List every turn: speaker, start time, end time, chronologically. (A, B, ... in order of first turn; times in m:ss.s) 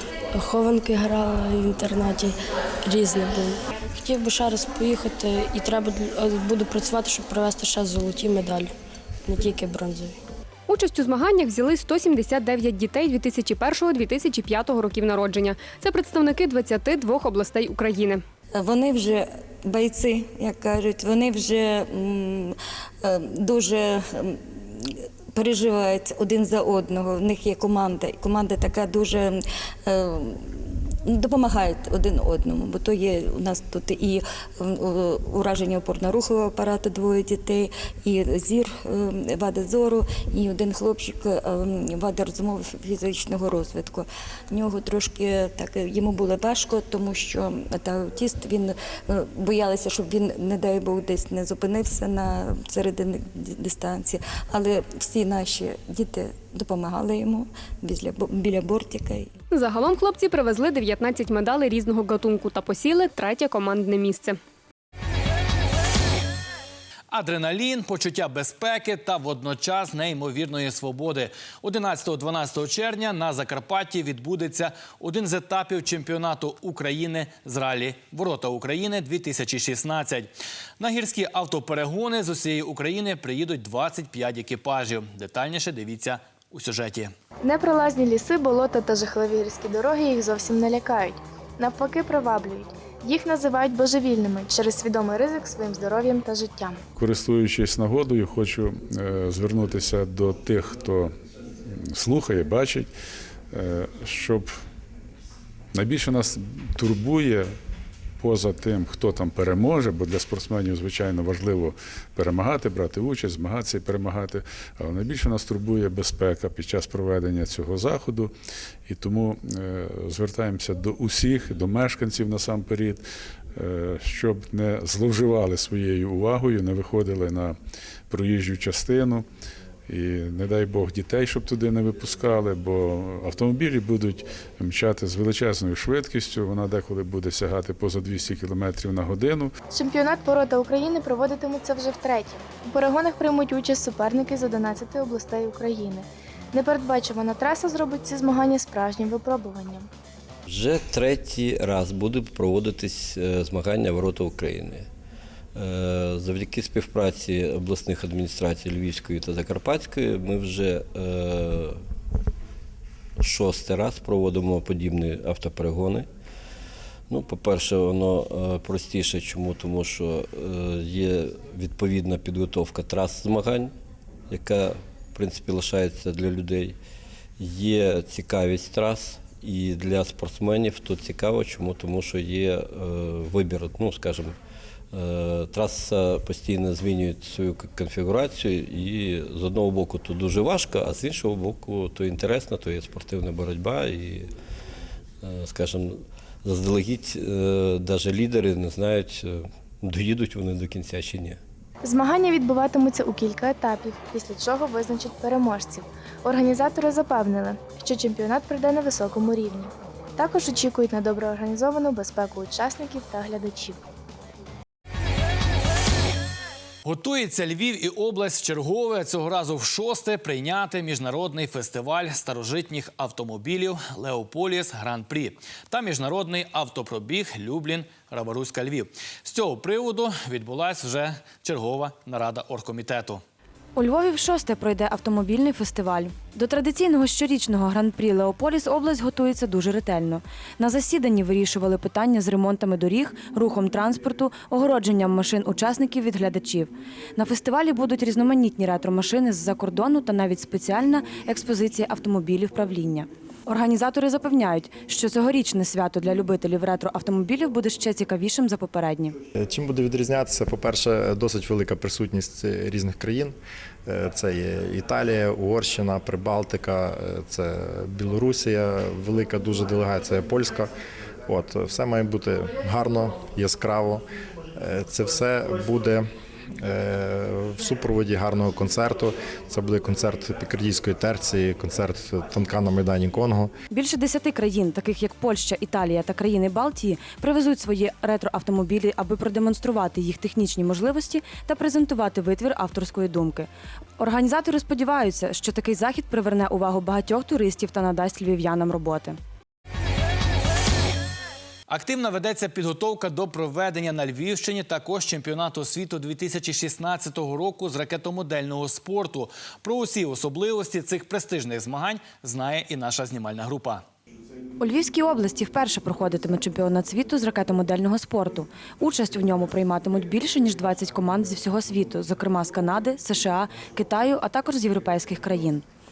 0:00.3-0:08.7 A
0:09.2-0:10.2 A
0:10.7-0:18.2 B
0:18.5-0:59.3 C
0:59.5-1:04.4 B
1:07.1-1:27.1 D
1:27.4-1:36.8 E
1:36.9-1:41.1 F
1:41.7-1:42.9 F
1:43.5-1:44.5 F
1:45.7-1:47.5 F
1:48.2-1:58.3 F
1:58.8-2:03.0 F
2:03.6-2:07.6 F
2:08.1-2:09.2 F
2:09.9-2:19.5 F
2:19.7-2:29.9 E
2:30.5-2:34.9 G
2:35.6-2:41.8 G
2:43.2-2:46.1 G
2:47.1-2:53.7 G
2:54.3-2:56.8 G
2:57.4-3:04.3 G
3:04.9-3:14.3 G
3:15.2-3:21.4 G
3:21.8-3:33.8 E
3:36.8-3:53.2 D
3:53.8-4:19.1 H
4:19.3-4:30.7 I
4:31.2-4:34.0 I
4:34.6-4:43.5 I
4:43.7-4:53.5 H
4:54.0-4:59.2 H
5:01.7-5:13.8 D
5:14.6-5:25.6 H